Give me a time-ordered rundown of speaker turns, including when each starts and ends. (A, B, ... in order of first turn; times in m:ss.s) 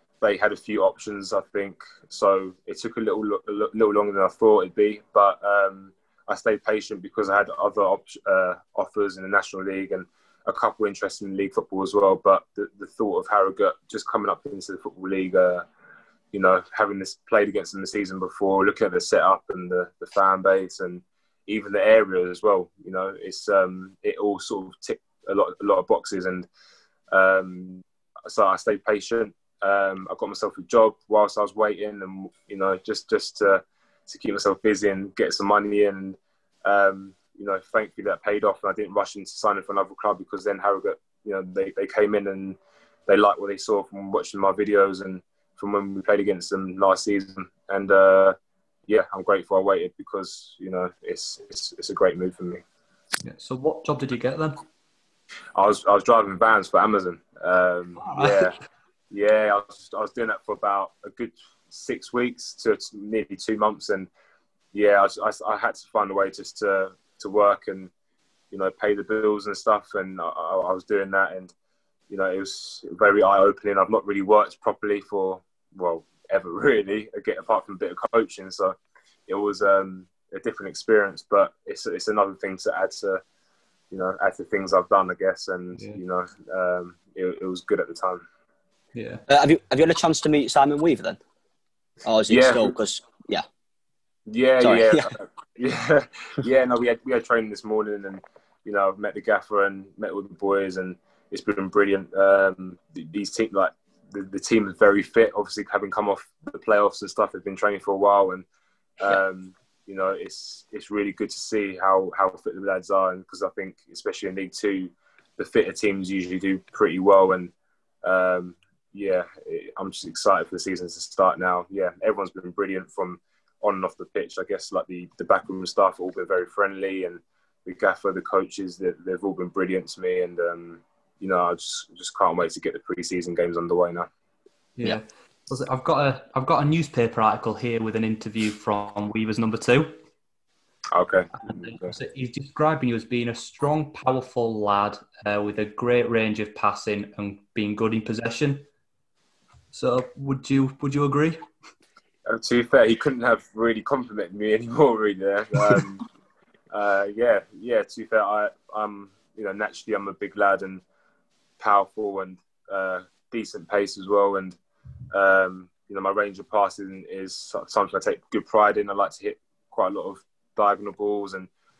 0:00.2-0:15.6 A
0:16.3-0:26.5 A
0:27.1-0:48.4 A
0:48.9-0:52.6 A
0:53.2-0:54.6 B
0:55.5-0:58.5 A
0:58.0-0:58.5 B
0:59.1-1:04.1 A
1:04.7-1:07.9 A
1:08.5-1:11.5 A
1:12.1-1:18.8 A
1:19.3-1:23.2 A
1:23.9-1:28.2 A
1:28.9-1:29.2 B
1:29.3-1:31.2 C
1:32.0-1:33.4 C
1:32.3-1:32.7 A
1:34.3-1:48.4 A
1:34.6-1:35.1 C
1:49.0-2:14.1 A
2:14.8-2:20.0 B
2:20.9-2:21.9 A
2:21.4-2:28.7 B
2:29.7-2:31.4 B
2:32.2-2:36.0 A
2:36.7-2:40.8 A
2:41.6-2:44.6 A
2:45.1-2:51.5 A